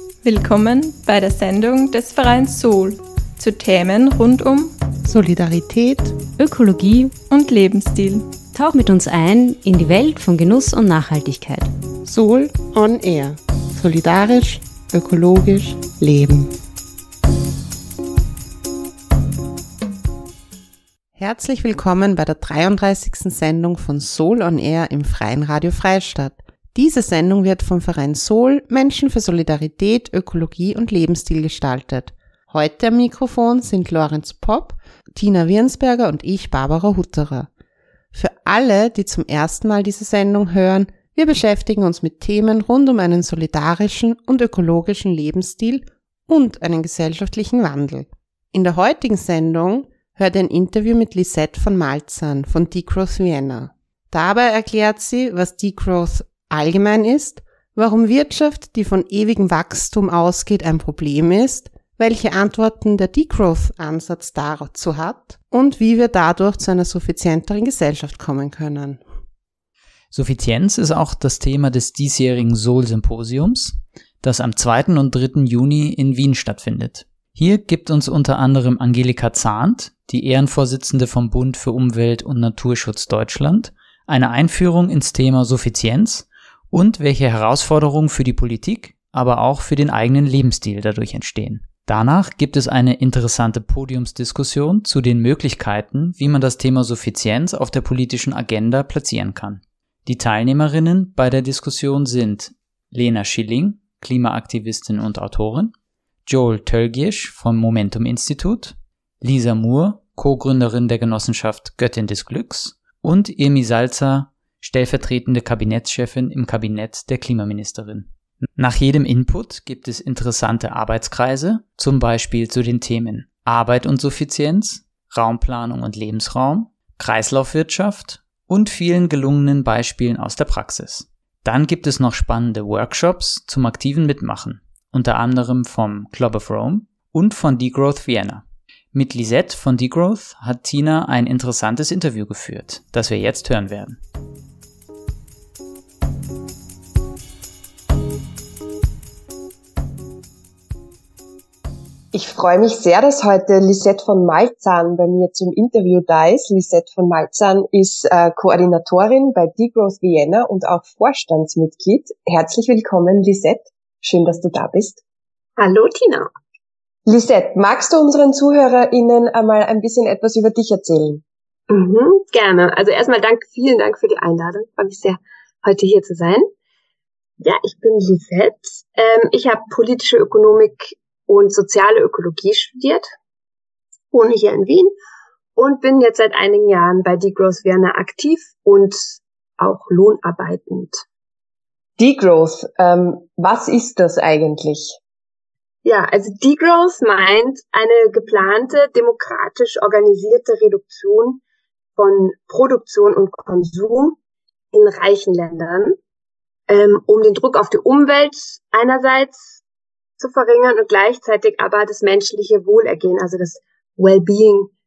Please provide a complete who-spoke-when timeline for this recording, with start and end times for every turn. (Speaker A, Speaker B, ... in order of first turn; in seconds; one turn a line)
Speaker A: 0.2-4.7
Speaker B: 5.0-6.2
Speaker C: 6.3-7.1
Speaker A: 7.3-8.2
Speaker C: 8.5-11.7
Speaker B: 12.1-16.5
Speaker B: 21.1-37.5
Speaker B: 38.1-69.0
Speaker D: 70.1-105.7
Speaker D: 106.2-144.0
Speaker E: 152.1-165.0
Speaker F: 165.6-166.3
Speaker E: 167.1-171.2
Speaker F: 171.7-176.5
Speaker F: 177.4-183.1
Speaker F: 184.1-184.9
Speaker F: 185.6-191.0
Speaker E: 192.0-195.0
Speaker F: 195.8-201.4
Speaker F: 202.0-204.2
Speaker F: 204.7-206.0
Speaker F: 206.7-209.6
Speaker F: 210.2-214.7